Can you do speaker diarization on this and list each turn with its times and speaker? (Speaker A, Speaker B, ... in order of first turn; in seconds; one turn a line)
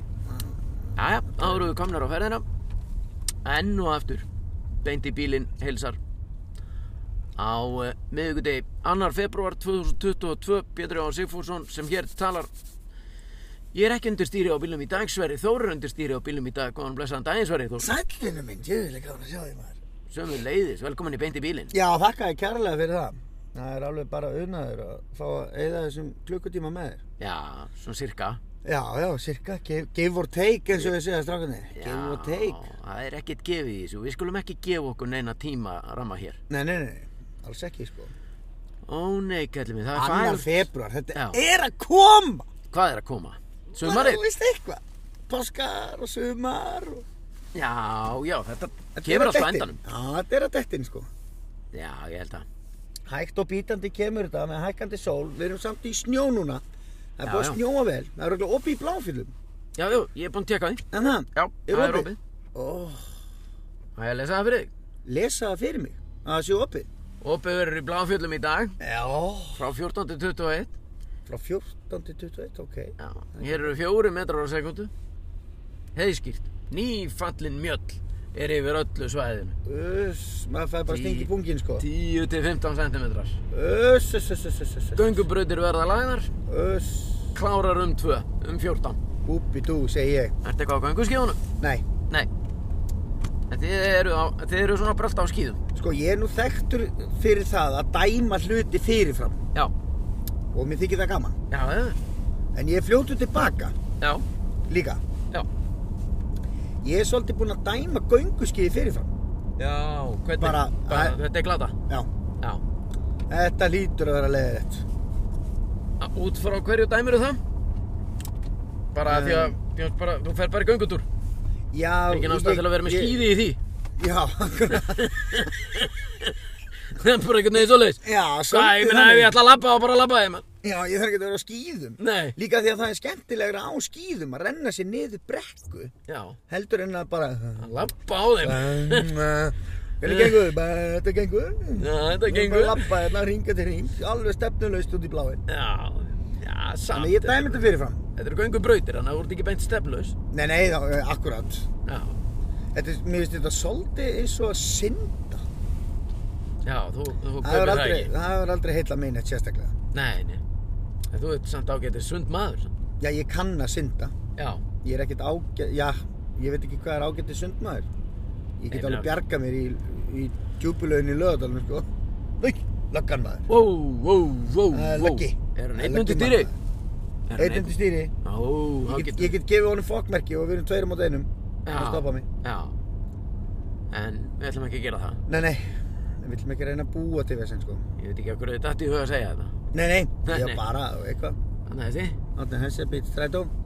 Speaker A: 0.2-1.6
Speaker B: 0.9-2.4
Speaker B: 3.4-4.2
Speaker B: 4.8-6.0
Speaker B: 7.4-12.5
Speaker B: 13.7-17.9
Speaker A: 17.8-19.8
Speaker B: 20.1-21.7
Speaker A: 21.7-27.0
Speaker B: 27.2-28.4
Speaker A: 28.6-32.6
Speaker B: 31.7-36.4
Speaker A: 36.5-38.1
Speaker B: 38.9-41.4
Speaker A: 39.9-42.5
Speaker B: 42.7-44.2
Speaker A: 43.8-47.0
Speaker B: 47.5-49.8
Speaker A: 49.0-51.1
Speaker B: 51.7-52.5
Speaker A: 53.0-56.6
Speaker A: 57.2-59.3
Speaker B: 57.2-57.6
Speaker B: 59.8-62.2
Speaker A: 60.9-63.1
Speaker B: 64.0-64.7
Speaker A: 65.0-66.9
Speaker B: 67.2-68.8
Speaker A: 68.8-69.7
Speaker B: 69.5-70.7
Speaker A: 71.2-73.7
Speaker B: 73.0-74.9
Speaker B: 75.9-79.6
Speaker A: 79.6-81.8
Speaker B: 80.9-83.4
Speaker A: 83.5-85.2
Speaker B: 85.0-86.3
Speaker A: 86.5-87.3
Speaker B: 87.3-89.0
Speaker A: 89.2-90.3
Speaker B: 90.4-91.4
Speaker A: 91.6-91.8
Speaker B: 93.5-95.6
Speaker A: 95.7-99.4
Speaker A: 100.5-101.4
Speaker B: 101.5-102.0
Speaker A: 102.5-103.8
Speaker A: 104.7-105.0
Speaker A: 106.8-109.1
Speaker B: 109.6-111.8
Speaker A: 110.4-111.2
Speaker A: 113.3-114.8
Speaker B: 116.0-117.4
Speaker B: 118.9-121.0
Speaker A: 119.0-119.5
Speaker A: 121.7-123.3
Speaker B: 122.1-123.6
Speaker A: 124.0-125.5
Speaker B: 124.7-126.3
Speaker B: 126.9-130.4
Speaker A: 128.0-129.3
Speaker A: 130.6-135.9
Speaker B: 132.0-132.4
Speaker B: 136.1-136.4
Speaker A: 136.5-137.8
Speaker B: 137.6-139.2
Speaker A: 138.4-145.4
Speaker B: 140.1-140.4
Speaker B: 141.8-142.9
Speaker B: 145.5-150.1
Speaker A: 146.9-148.0
Speaker A: 150.3-151.7
Speaker B: 151.8-152.2
Speaker A: 152.7-155.4
Speaker B: 156.6-158.1
Speaker A: 157.4-159.7
Speaker B: 159.9-160.4
Speaker B: 161.1-162.7
Speaker A: 163.0-164.1
Speaker B: 164.3-164.6
Speaker A: 164.8-167.9
Speaker A: 168.6-171.9
Speaker B: 168.7-169.1
Speaker A: 172.4-173.5
Speaker B: 173.5-176.5
Speaker A: 174.7-176.6
Speaker B: 177.3-179.4
Speaker A: 177.4-178.1
Speaker A: 178.9-182.3
Speaker B: 181.7-182.7
Speaker B: 183.9-185.2
Speaker A: 185.3-187.8
Speaker B: 188.0-189.6
Speaker A: 189.7-191.4
Speaker B: 190.2-190.6
Speaker B: 191.7-192.2
Speaker A: 192.3-193.5